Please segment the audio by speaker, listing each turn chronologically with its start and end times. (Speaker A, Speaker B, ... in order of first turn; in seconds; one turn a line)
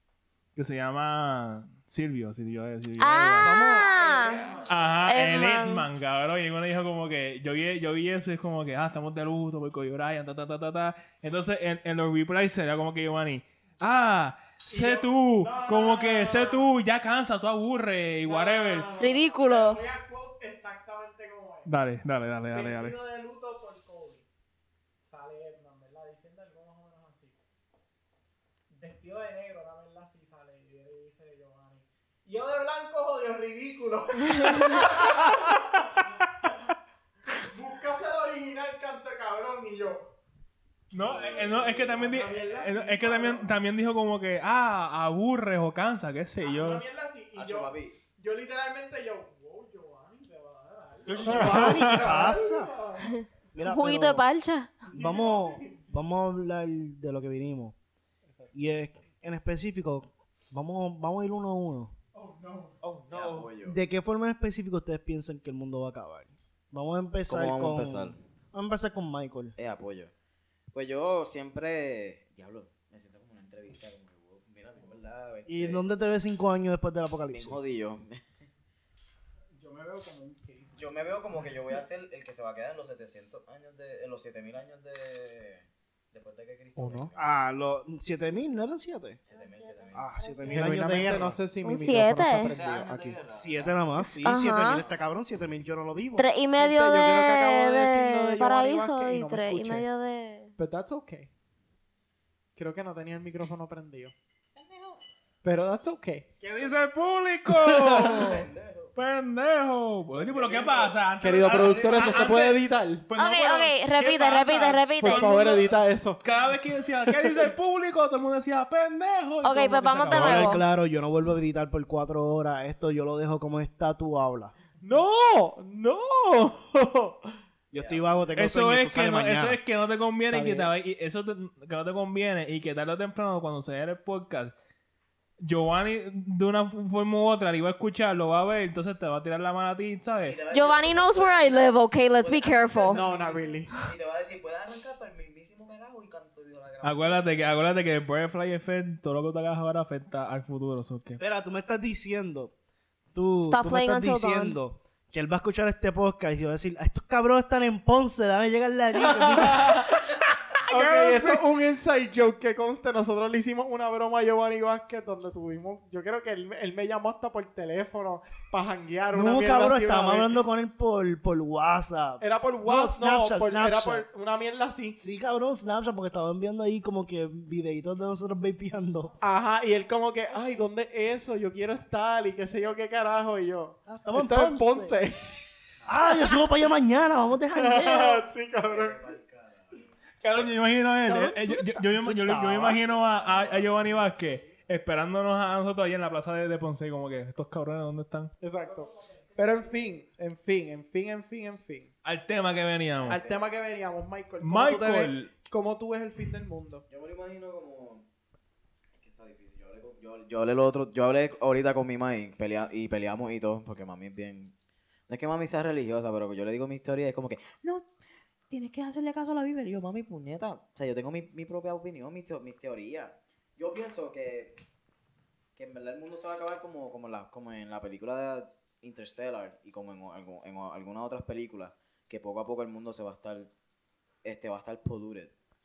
Speaker A: 0.6-3.7
Speaker B: 3.0-5.9
Speaker C: 3.4-3.9
Speaker D: 3.9-5.0
Speaker A: 4.7-18.9
Speaker D: 14.7-16.7
Speaker D: 18.2-21.7
Speaker B: 19.0-19.8
Speaker A: 21.7-23.0
Speaker D: 22.5-24.3
Speaker D: 25.1-27.4
Speaker D: 28.7-36.6
Speaker B: 34.4-34.8
Speaker D: 37.3-40.1
Speaker A: 40.9-46.8
Speaker D: 41.0-43.6
Speaker D: 46.4-53.2
Speaker E: 47.4-48.0
Speaker C: 51.0-52.8
Speaker A: 51.3-52.3
Speaker B: 53.0-54.9
Speaker C: 53.5-54.2
Speaker D: 54.9-56.0
Speaker C: 54.9-57.8
Speaker C: 58.5-62.0
Speaker D: 62.1-62.8
Speaker A: 62.8-63.5
Speaker E: 63.1-63.8
Speaker C: 63.6-69.6
Speaker E: 67.3-68.2
Speaker E: 69.6-70.1
Speaker E: 70.7-75.8
Speaker C: 75.5-77.6
Speaker E: 77.3-78.3
Speaker D: 79.5-80.8
Speaker E: 80.8-87.3
Speaker D: 86.8-87.1
Speaker C: 87.2-89.2
Speaker E: 89.2-90.1
Speaker B: 89.3-90.8
Speaker C: 89.9-91.4
Speaker D: 90.5-93.2
Speaker E: 90.8-91.4
Speaker B: 91.6-92.5
Speaker E: 92.3-93.8
Speaker C: 93.2-96.3
Speaker B: 94.1-94.8
Speaker B: 96.2-100.5
Speaker D: 96.6-99.9
Speaker D: 100.6-101.3
Speaker D: 102.6-104.1
Speaker E: 104.6-105.0
Speaker D: 105.4-106.3
Speaker A: 106.4-108.4
Speaker D: 107.5-108.5
Speaker E: 107.9-108.9
Speaker A: 109.0-120.5
Speaker E: 110.1-112.4
Speaker D: 111.2-113.1
Speaker B: 113.2-115.6
Speaker D: 115.0-116.2
Speaker D: 117.2-117.5
Speaker B: 119.4-120.7
Speaker C: 120.1-124.5
Speaker D: 124.8-127.4
Speaker C: 127.7-129.6
Speaker E: 127.8-128.3
Speaker A: 128.4-134.5
Speaker D: 130.3-130.7
Speaker A: 135.4-140.4
Speaker E: 140.2-147.3
Speaker B: 140.5-143.1
Speaker D: 142.9-143.8
Speaker A: 146.8-151.2
Speaker C: 151.2-152.5
Speaker C: 153.1-159.9
Speaker B: 153.4-154.6
Speaker D: 158.9-160.0
Speaker D: 160.6-170.4
Speaker A: 160.7-161.4
Speaker C: 169.1-174.1
Speaker D: 172.2-175.0
Speaker C: 175.0-179.2
Speaker D: 179.2-185.3
Speaker C: 183.9-185.0
Speaker C: 185.9-188.2
Speaker D: 187.5-189.1
Speaker E: 188.7-189.9
Speaker A: 190.2-198.3
Speaker C: 191.1-192.8
Speaker E: 192.8-194.1
Speaker D: 198.4-201.9
Speaker A: 202.0-203.2
Speaker E: 203.0-203.5
Speaker D: 203.1-206.8
Speaker A: 204.4-205.3
Speaker E: 206.9-208.1
Speaker E: 209.0-214.5
Speaker E: 215.1-217.9
Speaker E: 218.5-224.6
Speaker E: 225.6-233.5
Speaker E: 234.2-235.3